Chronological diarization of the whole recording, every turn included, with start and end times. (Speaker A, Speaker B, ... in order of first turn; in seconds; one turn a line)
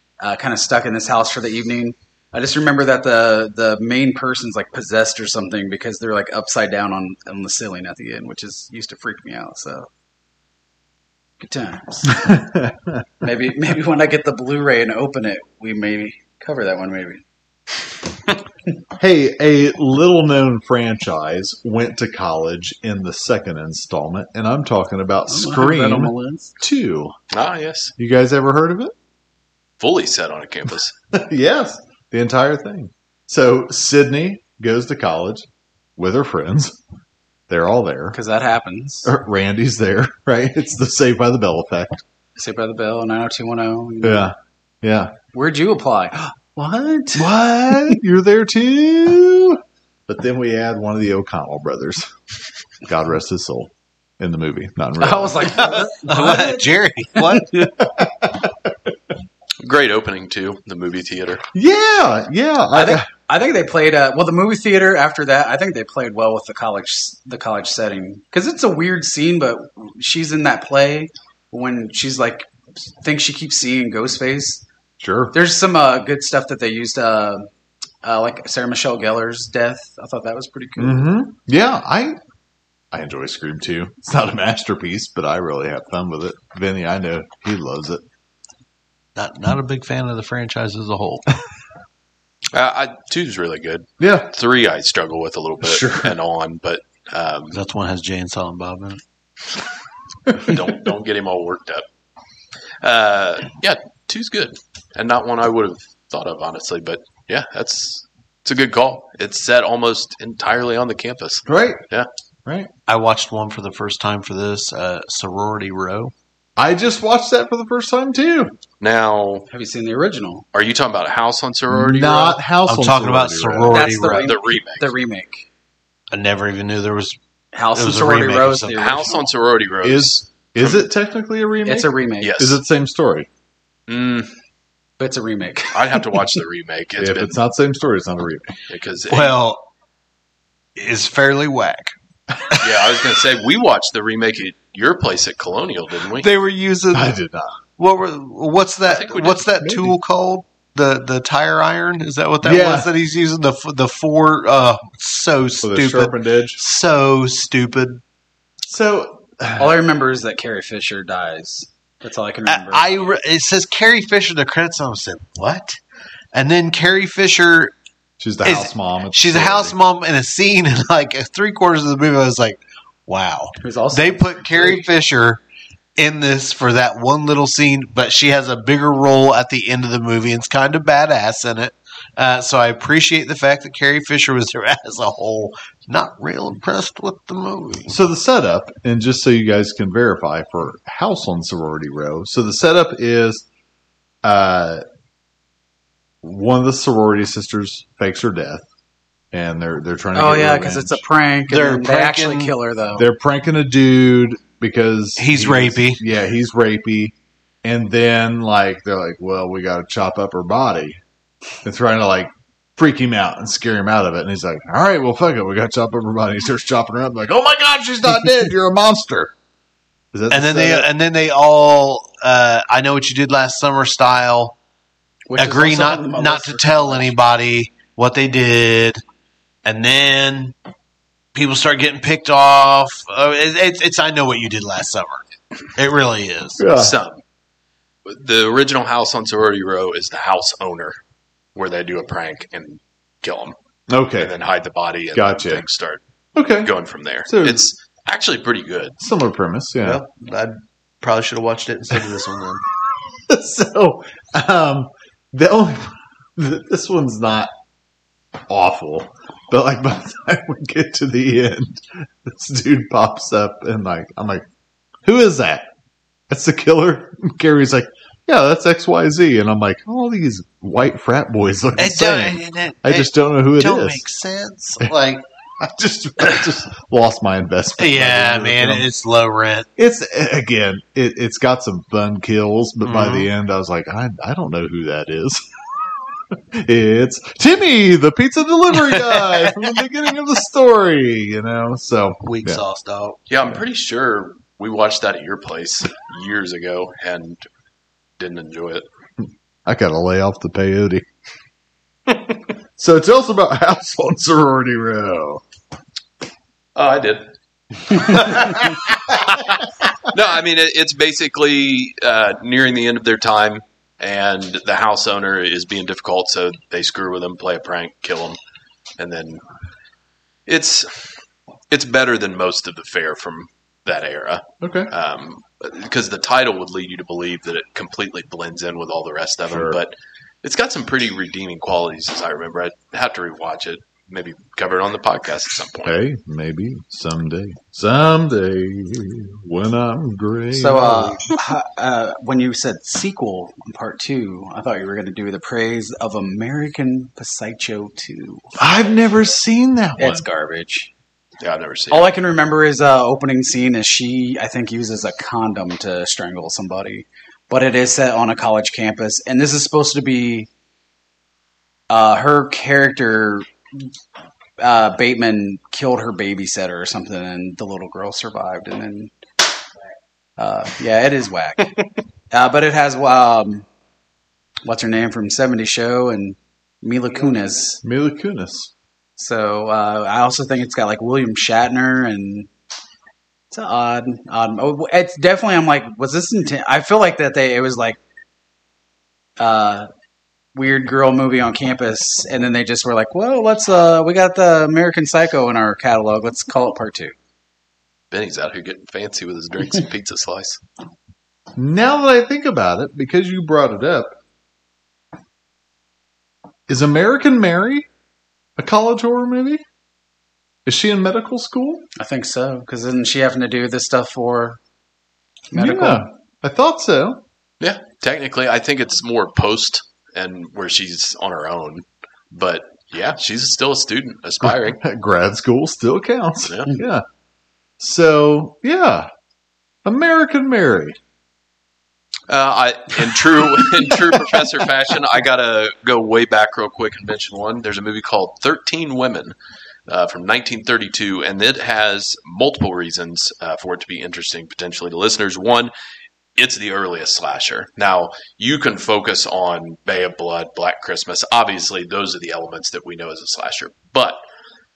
Speaker A: 0.2-9.9
Speaker A: 11.4-12.3
Speaker B: 12.1-13.2
Speaker A: 13.2-17.2
Speaker B: 19.0-27.1
Speaker A: 25.3-26.5
Speaker C: 27.3-27.9
Speaker B: 28.0-28.9
Speaker C: 29.8-30.9
Speaker B: 31.1-36.8
Speaker B: 37.5-38.2
Speaker A: 38.1-39.1
Speaker B: 39.0-42.0
Speaker A: 42.4-44.3
Speaker B: 44.0-45.1
Speaker A: 45.3-47.9
Speaker B: 47.1-52.1
Speaker B: 52.8-56.3
Speaker A: 55.0-57.7
Speaker D: 55.6-57.6
Speaker B: 57.6-58.7
Speaker C: 59.6-61.4
Speaker B: 61.5-63.1
Speaker A: 62.7-74.6
Speaker B: 75.0-75.3
Speaker A: 75.3-77.5
Speaker A: 78.0-81.1
Speaker B: 80.8-82.2
Speaker B: 82.9-88.0
Speaker D: 89.2-91.2
Speaker C: 92.5-97.6
Speaker B: 94.0-94.3
Speaker B: 95.6-96.2
Speaker D: 97.5-99.0
Speaker B: 100.3-100.6
Speaker C: 100.4-101.8
Speaker C: 102.8-112.1
Speaker B: 111.5-111.8
Speaker B: 112.4-112.7
Speaker D: 112.9-116.1
Speaker B: 116.6-118.5
Speaker C: 118.8-119.5
Speaker A: 119.5-120.5
Speaker C: 120.5-122.4
Speaker B: 121.7-123.9
Speaker D: 122.7-124.3
Speaker A: 123.7-125.5
Speaker C: 124.0-124.9
Speaker D: 126.1-127.2
Speaker A: 127.5-129.3
Speaker D: 127.7-128.8
Speaker C: 128.8-130.9
Speaker B: 129.8-133.3
Speaker A: 131.7-132.4
Speaker C: 132.2-132.6
Speaker C: 133.9-134.3
Speaker A: 135.0-136.1
Speaker C: 135.7-137.3
Speaker B: 137.0-138.6
Speaker C: 138.7-139.4
Speaker D: 139.1-139.6
Speaker D: 140.8-141.9
Speaker C: 142.6-146.3
Speaker D: 146.1-147.1
Speaker B: 146.9-147.6
Speaker D: 147.8-158.0
Speaker C: 148.8-149.5
Speaker B: 149.6-149.9
Speaker B: 152.4-152.9
Speaker B: 155.6-156.6
Speaker B: 158.7-159.8
Speaker A: 159.6-163.2
Speaker D: 162.5-165.8
Speaker D: 166.3-167.7
Speaker B: 168.2-169.8
Speaker D: 168.4-175.4
Speaker A: 173.6-174.8
Speaker D: 176.0-188.0
Speaker B: 187.9-193.4
Speaker B: 194.2-194.8
Speaker B: 196.2-198.7
Speaker B: 199.3-201.0
Speaker A: 200.1-203.1
Speaker D: 201.5-202.5
Speaker B: 202.9-211.0
Speaker D: 205.2-206.0
Speaker B: 211.6-219.3
Speaker B: 220.1-220.9
Speaker D: 220.3-224.6
Speaker A: 225.3-227.1
Speaker D: 225.4-229.0
Speaker D: 229.6-230.5
Speaker D: 231.3-235.2
Speaker D: 235.8-236.6
Speaker B: 236.6-237.0
Speaker C: 236.7-237.2
Speaker C: 238.1-241.0
Speaker C: 241.5-243.5
Speaker B: 243.9-244.3
Speaker C: 244.2-246.0
Speaker B: 245.1-245.7
Speaker B: 246.3-246.7
Speaker C: 246.6-249.0
Speaker B: 247.2-247.7
Speaker B: 249.0-250.0
Speaker D: 249.8-252.6
Speaker B: 253.3-257.5
Speaker B: 258.5-264.4
Speaker B: 265.0-265.7
Speaker B: 266.3-274.0
Speaker D: 271.8-275.2
Speaker B: 275.6-278.9
Speaker D: 277.8-279.7
Speaker B: 279.8-285.4
Speaker D: 282.8-283.3
Speaker B: 286.3-292.6
Speaker D: 288.7-289.6
Speaker D: 292.2-293.2
Speaker C: 293.3-297.4
Speaker C: 298.2-298.9
Speaker B: 299.6-301.0
Speaker B: 302.8-305.4
Speaker C: 306.8-307.3
Speaker C: 307.8-318.4
Speaker C: 319.0-319.4
Speaker C: 320.5-321.1
Speaker C: 321.7-335.9
Speaker B: 324.6-324.9
Speaker B: 329.4-329.8
Speaker B: 335.8-341.2
Speaker A: 340.5-349.1
Speaker B: 348.6-350.2
Speaker A: 350.0-350.9
Speaker C: 351.4-352.1
Speaker A: 351.9-360.5
Speaker A: 361.9-363.5
Speaker A: 364.6-369.1
Speaker A: 370.4-371.7
Speaker A: 372.3-373.6
Speaker A: 374.6-377.8
Speaker B: 377.8-378.7
Speaker A: 379.2-382.5
Speaker A: 383.5-388.0
Speaker A: 389.4-389.9
Speaker A: 390.5-397.1
Speaker C: 398.1-400.6
Speaker B: 401.6-404.1
Speaker B: 406.7-407.9
Speaker B: 408.6-409.6
Speaker B: 410.6-411.9
Speaker A: 411.9-414.6
Speaker A: 415.5-416.1
Speaker B: 415.5-417.2
Speaker C: 417.6-424.8
Speaker B: 424.4-427.0
Speaker C: 426.5-426.7
Speaker B: 427.8-429.1
Speaker B: 429.8-431.0
Speaker C: 432.3-439.3
Speaker C: 439.9-445.7
Speaker C: 446.4-454.2